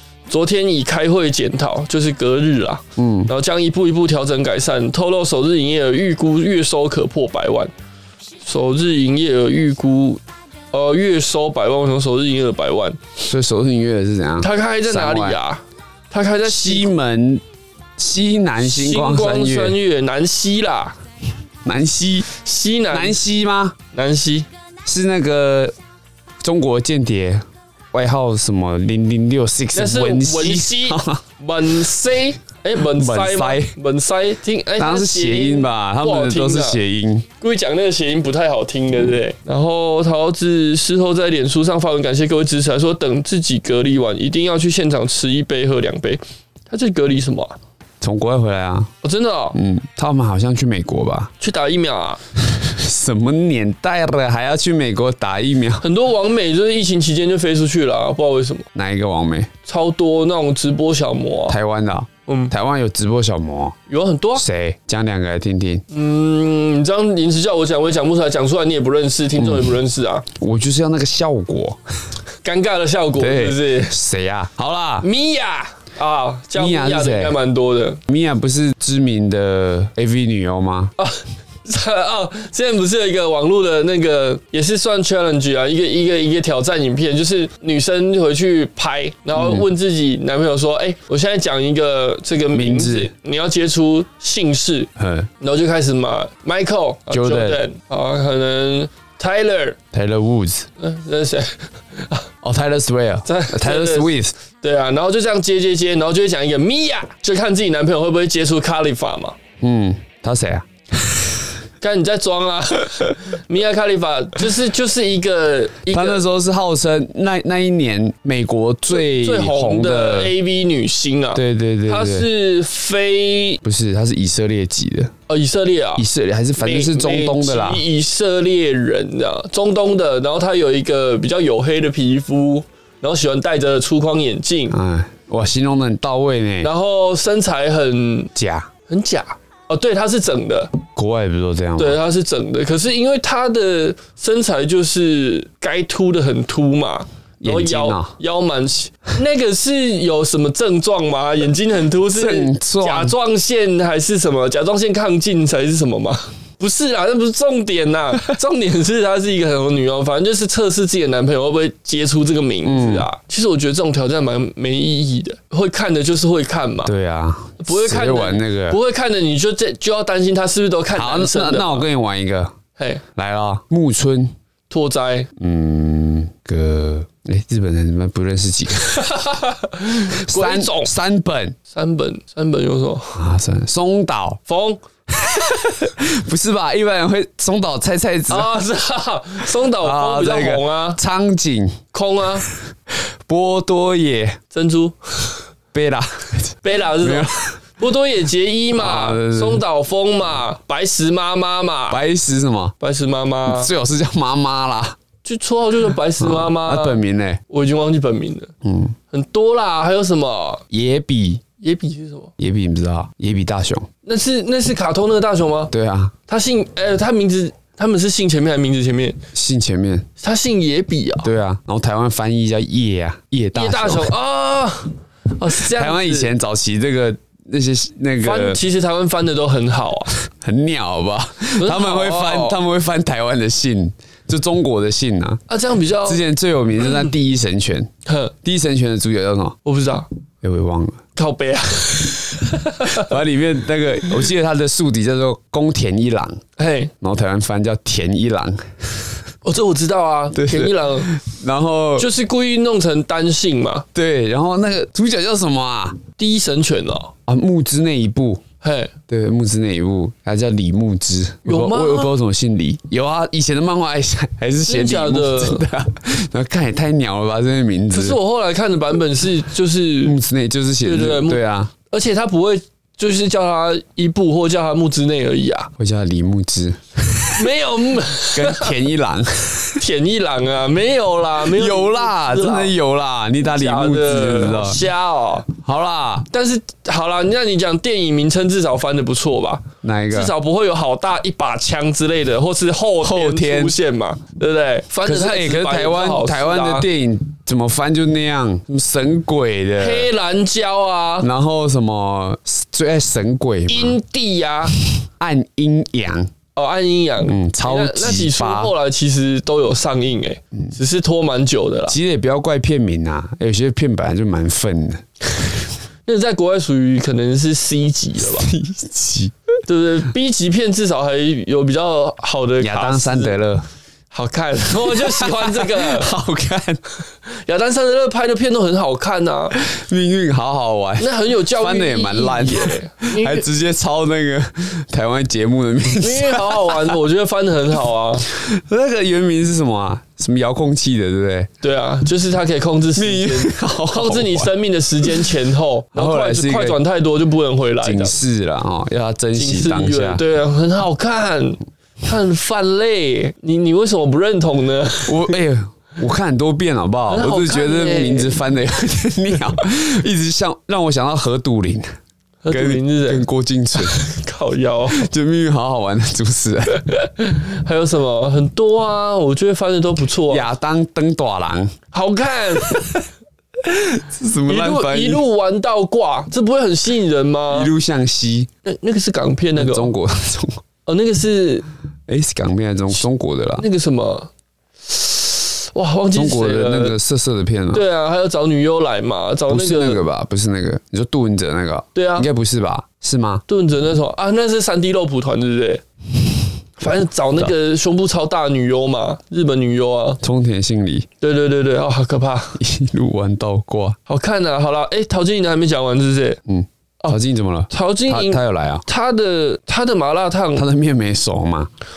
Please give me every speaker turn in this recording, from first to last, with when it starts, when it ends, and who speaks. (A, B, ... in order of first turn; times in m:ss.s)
0:00.3-0:07.7 A
0:03.0-0:03.3 B
0:08.4-0:13.0 A
0:13.2-0:15.4 B
0:14.4-0:16.9 A
0:16.4-0:17.4 B
0:18.0-0:19.8 B
0:18.6-0:21.0 A
0:21.6-0:22.3 B
0:22.3-0:23.2 A
0:22.9-0:23.8 B
0:23.9-0:24.5 A
0:24.8-0:25.8 B
0:26.4-0:31.2 B
0:29.7-0:36.8 A
0:32.9-0:33.7 B
0:34.8-0:37.3 B
0:37.4-0:47.6 A
0:48.0-0:48.9 B
0:49.0-0:49.6 A
0:49.5-0:51.3 B
0:51.4-0:52.2 A
0:52.4-0:55.8 B
0:55.8-0:58.7 A
0:58.8-0:59.5 B
0:59.7-1:01.6 A
1:01.5-1:03.8 B
1:02.3-1:02.5 A
1:03.9-1:04.4 A
1:04.4-1:05.8 B
1:05.9-1:10.3 A
1:09.4-1:09.8 B
1:10.4-1:11.8 B
1:12.4-1:14.0 A
1:13.2-1:15.1 B
1:15.0-1:18.0 A
1:16.6-1:17.4 B
1:18.1-1:20.9 B
1:21.0-1:39.8 A
1:29.4-1:29.7 B
1:32.5-1:33.1 B
1:35.0-1:35.3 B
1:37.1-1:37.6 B
1:39.9-1:40.7 B
1:40.8-1:42.3 A
1:42.4-1:44.3 B
1:43.3-1:49.4 A
1:49.6-1:51.4 B
1:51.8-1:56.2 A
1:55.9-2:00.3 B
1:59.0-2:03.6 A
2:01.3-2:02.3 B
2:03.6-2:05.1 B
2:05.3-2:06.0 A
2:06.0-2:07.8 B
2:06.6-2:14.8 A
2:14.7-2:16.7 B
2:16.6-2:18.3 A
2:18.4-2:18.7 B
2:18.9-2:20.7 A
2:21.0-2:22.0 B
2:21.8-2:46.9 A
2:27.4-2:28.1 B
2:32.1-2:33.2 B
2:42.6-2:43.1 B
2:46.8-2:48.8 B
2:47.6-2:51.9 A
2:50.9-2:52.6 B
2:52.8-2:53.0 A
2:53.2-2:54.3 B
2:54.7-2:55.3 A
2:55.4-2:59.1 B
2:59.0-3:00.9 A
3:00.1-3:01.6 B
3:01.7-3:03.2 A
3:03.2-3:04.4 B
3:04.5-3:04.8 A
3:05.2-3:08.5 B
3:08.3-3:11.0 A
3:09.7-3:11.8 B
3:11.9-3:12.5 A
3:13.3-3:14.4 B
3:14.5-3:15.4 A
3:15.7-3:17.6 B
3:16.6-3:22.0 A
3:18.8-3:19.6 B
3:21.9-3:22.8 B
3:22.8-3:23.7 A
3:23.5-3:25.0 B
3:25.2-3:28.5 A
3:26.2-3:27.4 B
3:28.6-3:29.0 B
3:29.1-3:30.6 A
3:30.7-3:31.4 B
3:31.6-3:32.3 A
3:32.4-3:33.9 B
3:34.0-3:35.7 A
3:35.7-3:36.1 B
3:36.3-3:39.2 A
3:39.3-3:40.1 B
3:40.2-3:41.3 A
3:41.2-3:44.1 B
3:43.6-3:46.3 A
3:45.6-3:48.6 B
3:48.2-3:50.1 A
3:50.3-3:55.4 B
3:51.6-3:52.6 A
3:55.5-3:56.2 A
3:56.0-3:57.9 B
3:58.1-3:58.3 A
3:58.4-3:59.6 B
3:59.6-4:00.1 A
4:00.4-4:01.0 B
4:01.2-4:03.1 A
4:02.9-4:06.4 B
4:06.6-4:06.9 A
4:07.0-4:09.2 B
4:09.4-4:11.1 A
4:10.3-4:12.1 B
4:12.0-4:13.9 A
4:14.0-4:16.0 B
4:16.2-4:17.1 A
4:17.3-4:18.4 B
4:18.6-4:18.9 A
4:19.1-4:28.2 B
4:21.4-4:22.1 A
4:24.7-4:25.6 A
4:27.9-4:30.2 A
4:30.0-4:31.7 B
4:30.8-4:35.7 A
4:35.8-4:37.5 B
4:37.3-4:38.7 A
4:38.3-4:39.8 B
4:39.8-4:42.7 A
4:41.4-4:44.8 B
4:43.4-4:45.5 A
4:45.6-4:46.3 B
4:46.3-4:56.9 A
4:49.8-4:50.3 B
4:53.0-4:53.8 B
4:55.0-5:00.1 B
4:59.8-5:01.3 A
5:01.2-5:04.0 B
5:03.7-5:04.8 A
5:05.2-5:06.3 B
5:06.6-5:12.0 A
5:07.2-5:08.7 B
5:11.9-5:15.0 B
5:16.1-5:18.5 A
5:18.3-5:19.3 B
5:19.7-5:23.4 A
5:22.6-5:23.7 B
5:24.1-5:26.1 A
5:24.8-5:26.8 B
5:27.3-5:29.6 A
5:29.6-5:37.0 B
5:31.0-5:33.5 A
5:36.0-5:38.3 A
5:38.3-5:41.5 B
5:41.6-5:48.2 A
5:43.0-5:45.1 B
5:45.9-5:46.8 B
5:47.8-5:50.2 B
5:49.4-5:55.4 A
5:55.1-6:01.9 B
5:57.1-5:58.4 A
6:02.4-6:03.3 A
6:02.5-6:04.0 B
6:03.8-6:05.1 A
6:04.9-6:06.8 B
6:06.9-6:10.5 A
6:10.3-6:11.8 B
6:11.9-6:12.9 A
6:13.7-6:15.2 B
6:14.5-6:17.7 A
6:17.5-6:18.5 B
6:18.6-6:19.9 A
6:19.6-6:20.6 B
6:20.9-6:21.7 A
6:22.1-6:23.6 B
6:23.6-6:24.3 A
6:24.9-6:27.0 A
6:26.1-6:27.8 B
6:27.7-6:30.0 A
6:29.5-6:33.4 B
6:32.0-6:32.3 A
6:33.5-6:35.8 A
6:36.8-6:40.2 A
6:40.2-6:41.1 B
6:41.2-6:42.6 A
6:42.6-6:44.0 B
6:44.1-6:46.4 A
6:46.5-6:48.8 B
6:47.7-6:50.6 A
6:50.5-6:51.7 B